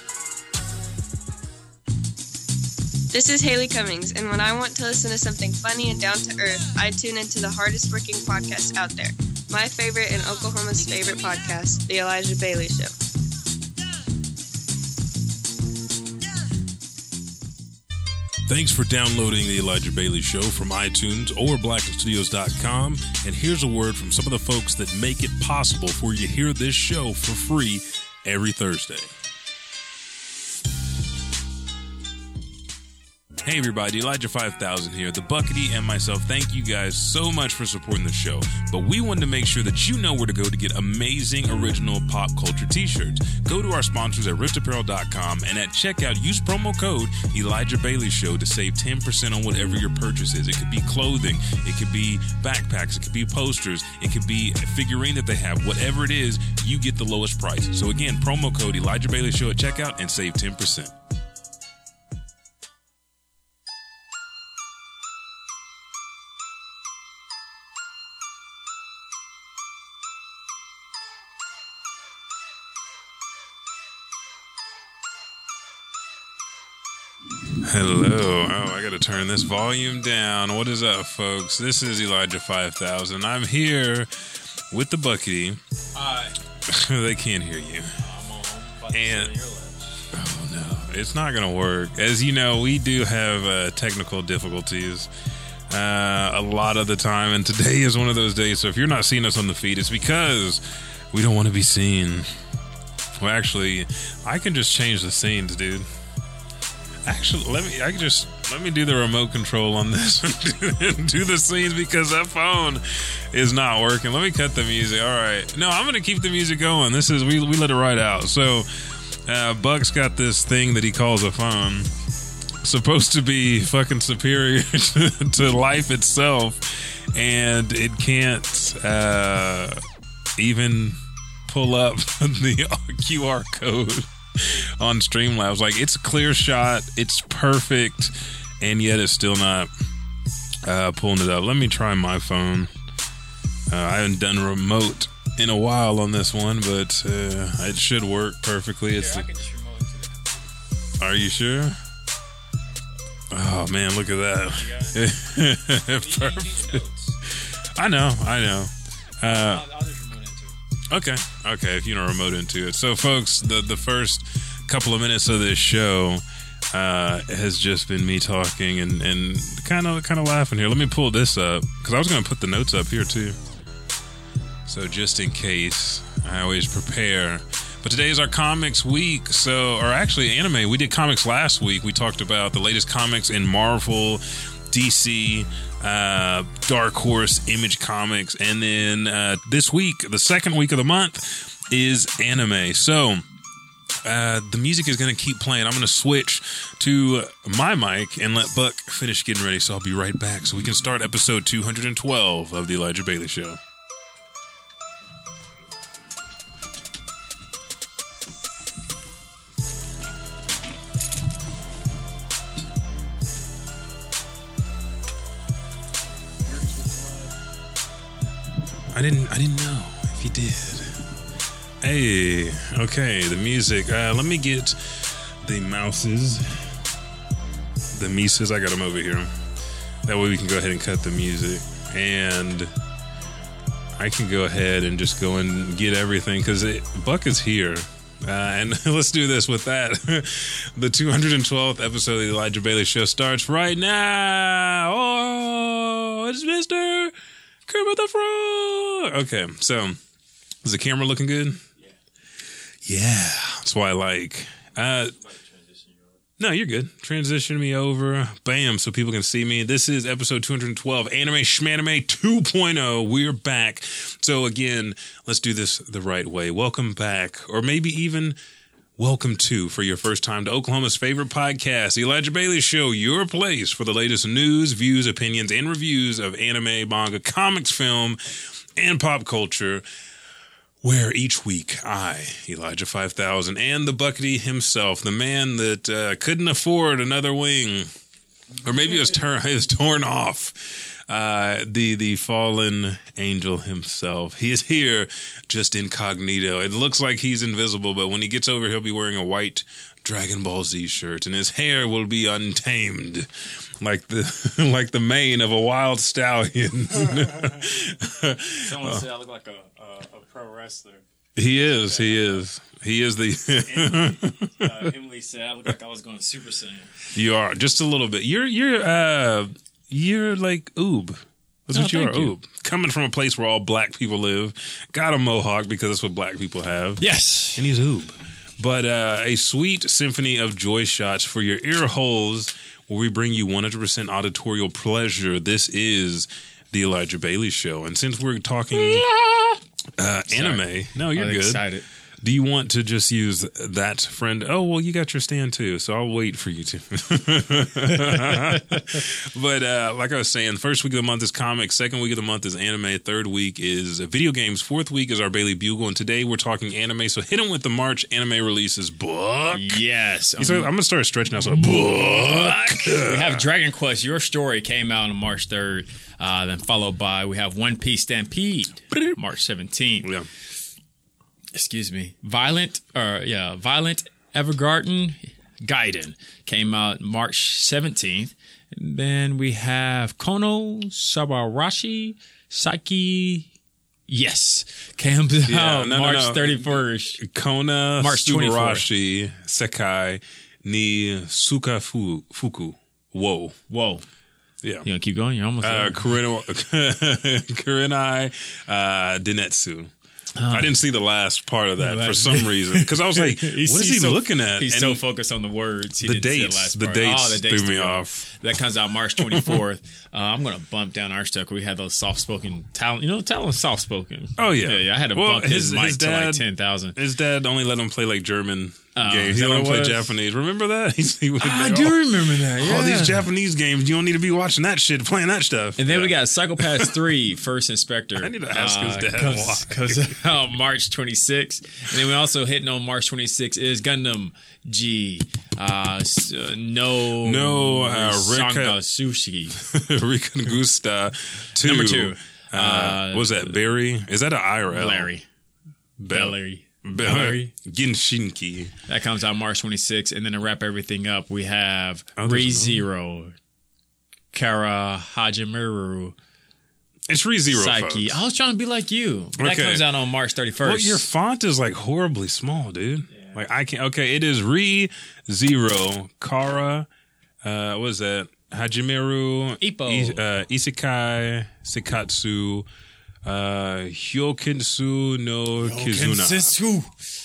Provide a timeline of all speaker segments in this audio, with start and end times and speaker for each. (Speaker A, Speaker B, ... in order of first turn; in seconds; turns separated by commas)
Speaker A: 3.1-12.9, Speaker B: 18.5-29.1, Speaker B: 33.5-60.9, Speaker B: 77.6-85.6, Speaker C: 86.0-86.4, Speaker B: 86.7-88.0, Speaker C: 88.0-90.1, Speaker B: 88.9-89.3, Speaker B: 90.1-95.1, Speaker B: 95.7-102.3, Speaker B: 103.2-105.9, Speaker B: 107.1-121.9, Speaker B: 122.6-129.8, Speaker B: 130.4-139.7, Speaker B: 140.7-142.7, Speaker B: 143.7-149.3, Speaker C: 148.9-150.3, Speaker B: 151.0-151.8, Speaker B: 153.3-159.7, Speaker C: 154.5-155.0, Speaker C: 156.0-157.2, Speaker C: 159.2-160.6, Speaker B: 160.9-166.2, Speaker B: 166.7-173.4, Speaker B: 174.7-193.2, Speaker B: 194.0-203.6, Speaker B: 218.9-221.1, Speaker B: 221.8-226.8, Speaker B: 227.9-229.4, Speaker B: 230.1-232.7, Speaker B: 234.0-247.1, Speaker B: 247.7-250.0, Speaker B: 250.6-251.6, Speaker B: 252.8-255.2, Speaker C: 255.3-256.1, Speaker B: 256.4-268.4, Speaker B: 269.0-279.9, Speaker B: 280.8-287.9, Speaker B: 288.6-309.0, Speaker C: 308.6-312.4, Speaker B: 311.4-314.9, Speaker C: 313.7-317.0, Speaker B: 317.1-339.1, Speaker C: 321.7-322.3, Speaker C: 327.0-327.7, Speaker C: 338.7-339.6, Speaker B: 340.0-341.6, Speaker C: 340.3-341.8, Speaker B: 342.2-359.8, Speaker C: 348.1-348.8, Speaker C: 359.5-360.7, Speaker B: 360.4-363.5, Speaker C: 361.4-370.1, Speaker B: 370.0-370.3, Speaker C: 371.6-383.5, Speaker C: 384.1-387.2, Speaker B: 385.5-393.6, Speaker C: 388.0-388.9, Speaker C: 393.7-394.1, Speaker C: 394.9-396.1, Speaker B: 395.6-399.9, Speaker C: 400.4-400.8, Speaker B: 400.5-405.0, Speaker C: 401.8-417.0, Speaker B: 406.0-408.3, Speaker B: 409.2-409.6, Speaker B: 414.4-427.0, Speaker C: 418.9-420.1, Speaker C: 421.4-423.3, Speaker C: 425.8-439.6, Speaker B: 428.2-430.2, Speaker B: 437.2-438.8, Speaker B: 439.6-445.1, Speaker C: 441.6-443.6, Speaker C: 444.7-445.3, Speaker B: 446.0-448.7, Speaker C: 446.1-447.5, Speaker C: 448.9-453.4, Speaker B: 452.2-452.9, Speaker C: 454.3-456.2, Speaker B: 457.1-458.2, Speaker C: 457.5-461.1, Speaker B: 459.4-459.9, Speaker B: 460.6-466.9, Speaker B: 467.4-472.7, Speaker C: 469.6-470.2, Speaker B: 473.2-476.6, Speaker C: 475.6-477.0